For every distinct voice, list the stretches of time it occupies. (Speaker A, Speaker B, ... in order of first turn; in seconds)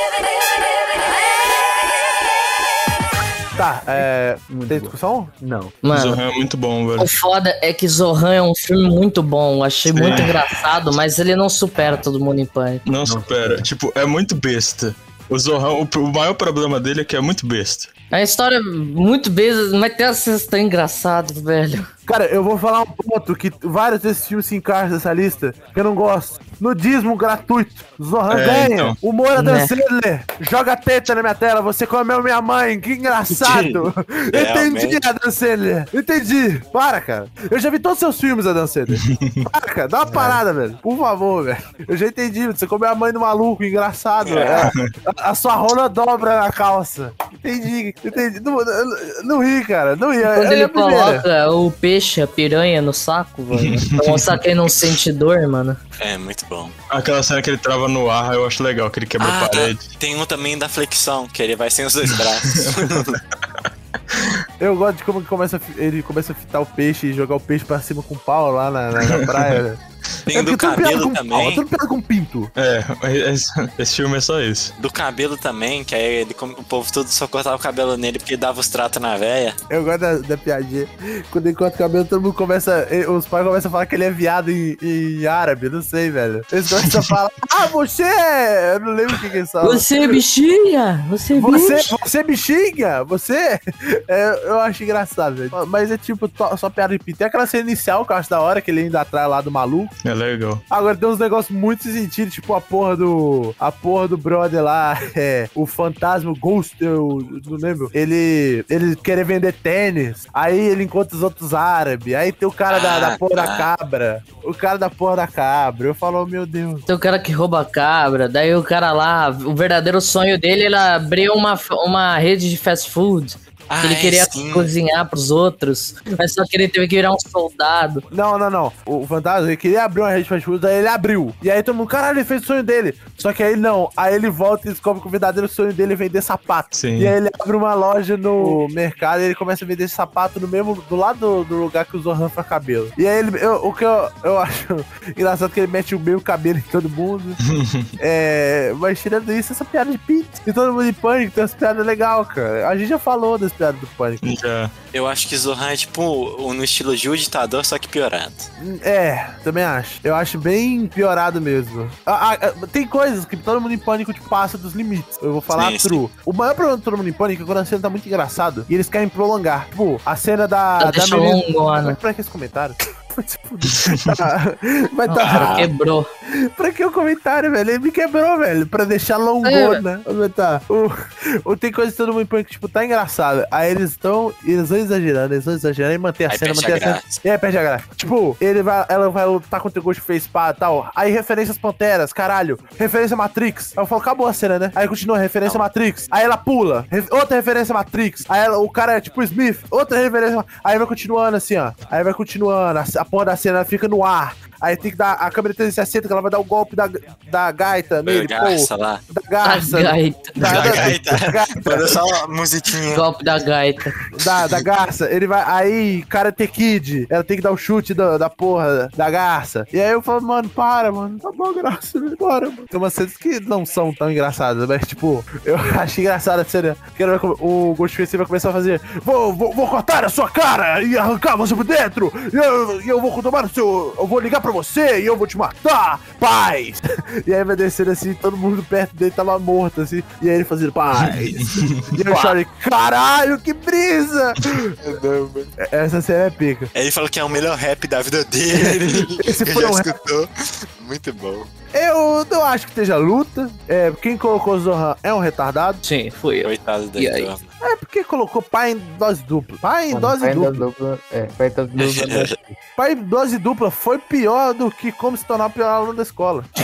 Speaker A: 3.5-5.3, 22.1-51.3, 64.6-69.8, 70.3-72.5, 79.7-89.9, 91.3-99.9, 100.7-116.8, 128.1-147.4, 148.0-154.2, 158.6-175.6, 176.3-212.0, 214.1-244.8, 245.6-246.7, 248.5-250.0, 251.7-255.8, 257.6-260.6, 262.8-266.5
Speaker B: 4.0-5.8, 13.0-13.7, 259.9-262.6
Speaker C: 5.8-6.2, 7.0-12.8, 18.1-21.9, 29.4-29.7, 50.2-55.8, 89.6-91.9, 116.9-128.0, 170.8-172.0, 175.1-176.1, 179.4-179.8, 209.4-210.6, 212.9-213.9, 255.8-257.3
Speaker D: 5.9-7.1, 9.9-10.4, 12.8-17.9, 28.3-29.0, 38.9-39.5, 53.5-54.4, 56.9-59.8, 62.5-63.6, 64.1-64.4, 69.0-69.6, 72.5-74.7, 100.0-100.6, 136.7-137.1, 147.4-147.9, 154.2-154.7, 173.7-174.1, 210.6-211.0, 241.1-242.0
Speaker E: 33.3-35.0, 44.2-44.7, 56.0-56.7, 59.2-63.2, 70.3-71.6, 74.8-79.6, 112.7-113.7, 123.7-124.7, 154.9-158.5, 165.5-166.0, 175.2-175.7, 186.3-187.2, 208.1-209.0, 210.4-213.1, 244.8-245.5, 246.7-251.5, 256.4-257.5, 261.8-262.3